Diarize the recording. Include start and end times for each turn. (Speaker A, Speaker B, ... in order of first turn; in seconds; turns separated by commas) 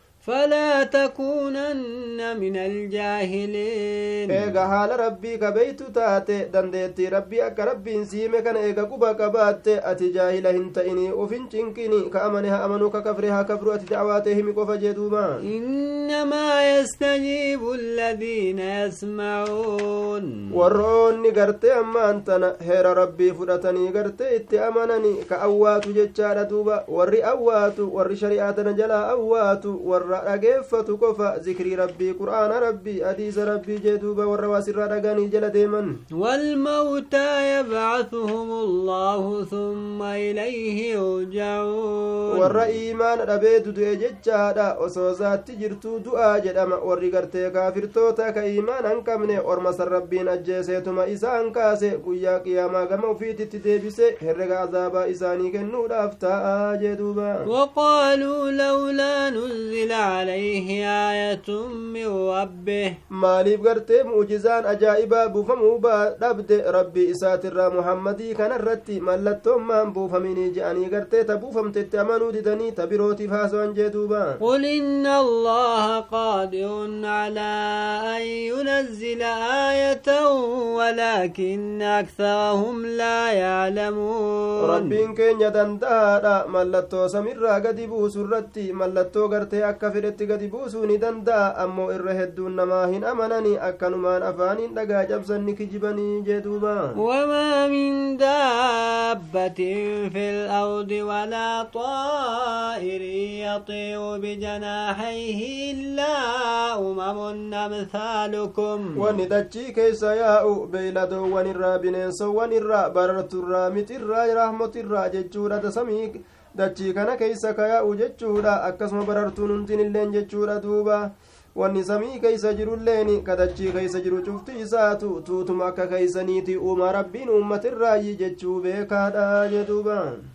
Speaker A: 0.2-4.5, Speaker B: 4.3-15.4, Speaker A: 15.4-20.3, Speaker B: 20.5-36.0, Speaker A: 36.1-42.7, Speaker B: 42.3-57.5, Speaker A: 57.5-63.0, Speaker B: 63.1-74.4, Speaker A: 74.4-85.0, Speaker B: 84.6-96.9, Speaker A: 97.0-109.0, Speaker B: 109.0-130.2